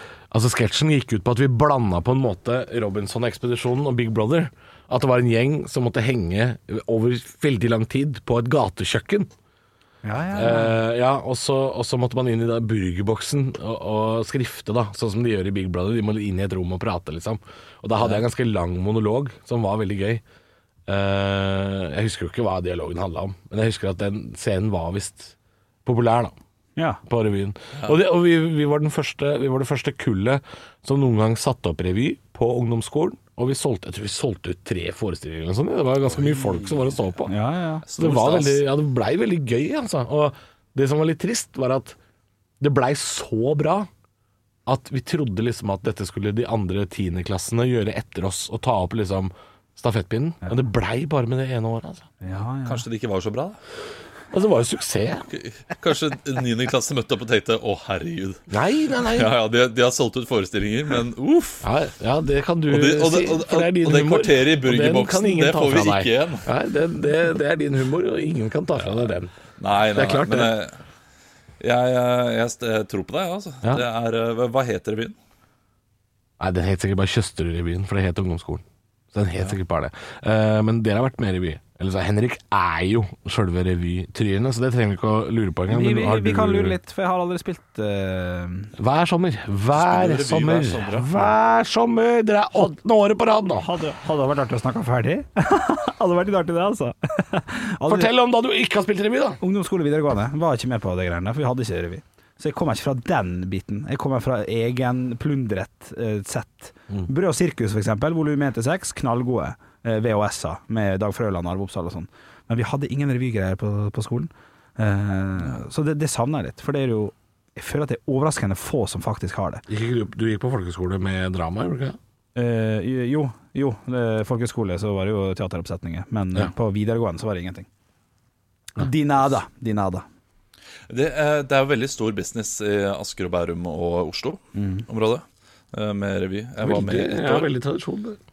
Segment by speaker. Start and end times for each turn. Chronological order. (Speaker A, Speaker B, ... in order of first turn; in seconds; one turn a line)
Speaker A: 0.3-9.3
Speaker B: 10.0-10.8
Speaker A: 10.3-20.2
Speaker A: 20.9-25.3
Speaker A: 25.8-26.3
Speaker B: 26.8-27.0
Speaker A: 27.1-37.3
Speaker C: 36.1-36.9
Speaker B: 37.3-37.8
Speaker C: 37.9-38.6
Speaker A: 37.9-42.0
Speaker A: 42.6-43.9
Speaker A: 44.6-52.1
Speaker B: 52.2-52.8
Speaker C: 52.6-53.6
Speaker A: 54.3-55.3
Speaker C: 55.3-58.4
Speaker A: 58.5-59.3
Speaker C: 59.0-61.7
Speaker A: 61.6-69.3
Speaker C: 62.7-66.5
Speaker C: 69.6-70.8
Speaker A: 69.9-70.5
Speaker C: 71.6-75.2
Speaker A: 76.4-86.8
Speaker B: 85.7-88.7
Speaker A: 88.8-93.7
Speaker C: 89.7-91.1
Speaker B: 93.6-98.1
Speaker A: 97.9-99.4
Speaker B: 99.4-119.6
Speaker A: 119.7-122.0
Speaker B: 122.3-127.7
Speaker B: 128.8-130.0
Speaker C: 130.9-137.5
Speaker B: 134.5-134.8
Speaker A: 136.6-138.2